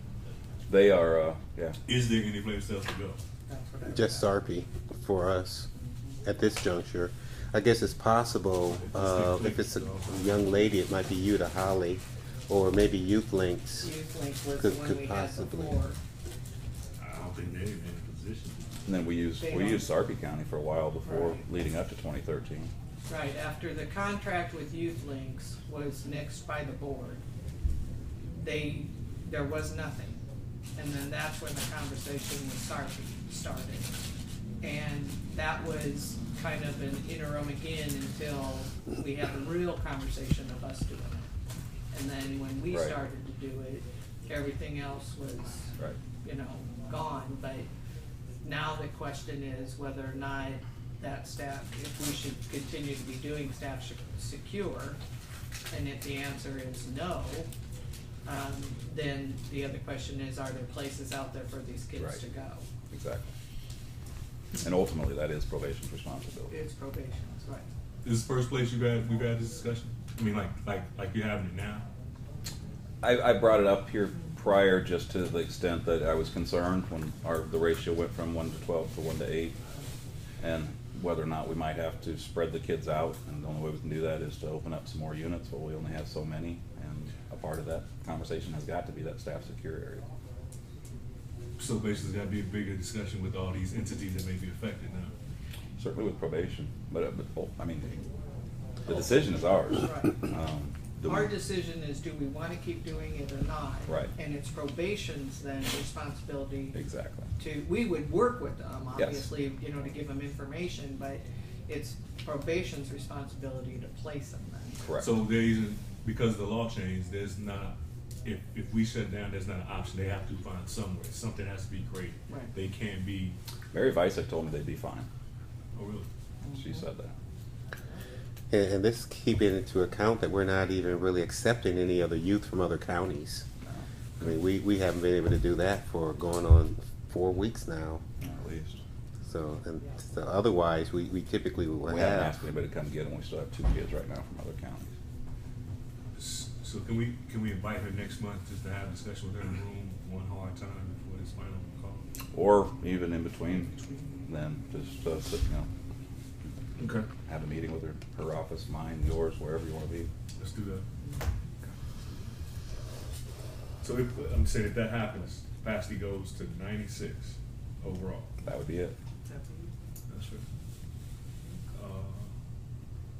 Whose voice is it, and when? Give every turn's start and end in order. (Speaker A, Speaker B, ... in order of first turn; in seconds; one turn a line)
Speaker A: 0.7-1.8
Speaker B: 1.9-3.2
Speaker C: 3.5-4.3
Speaker D: 3.8-5.7
Speaker C: 5.7-6.2
Speaker D: 6.2-13.9
Speaker B: 8.7-10.5
Speaker C: 13.8-16.0
Speaker D: 14.6-15.8
Speaker B: 17.0-18.7
Speaker A: 18.9-22.7
Speaker C: 19.4-19.8
Speaker C: 21.0-21.4
Speaker C: 23.1-27.2
Speaker C: 28.3-30.2
Speaker C: 30.8-34.0
Speaker C: 34.6-41.3
Speaker C: 41.9-47.7
Speaker A: 42.7-43.0
Speaker C: 48.4-55.0
Speaker C: 55.7-57.5
Speaker C: 58.2-62.7
Speaker A: 62.9-63.3
Speaker A: 64.6-66.5
Speaker C: 66.5-67.7
Speaker B: 68.0-71.9
Speaker A: 73.0-79.5
Speaker A: 80.4-90.1
Speaker B: 91.6-95.1
Speaker A: 95.8-98.1
Speaker A: 98.8-101.3
Speaker C: 99.7-100.2
Speaker C: 101.0-106.8
Speaker A: 103.9-104.1
Speaker A: 106.7-107.3
Speaker C: 107.4-114.8
Speaker A: 109.0-109.3
Speaker A: 114.8-115.2
Speaker B: 115.0-123.4
Speaker A: 123.7-125.1
Speaker B: 125.7-126.1
Speaker C: 126.4-126.8
Speaker A: 126.5-127.1
Speaker D: 128.5-133.5
Speaker D: 134.2-138.0
Speaker A: 138.2-138.8
Speaker D: 139.2-142.3
Speaker A: 141.8-144.9
Speaker B: 146.1-152.1
Speaker A: 152.3-153.7
Speaker A: 154.2-155.7
Speaker B: 156.8-157.1
Speaker A: 157.2-160.1
Speaker B: 160.4-160.8
Speaker B: 163.8-168.4
Speaker A: 168.4-168.9
Speaker C: 169.2-169.7
Speaker B: 170.1-170.4
Speaker B: 171.7-172.3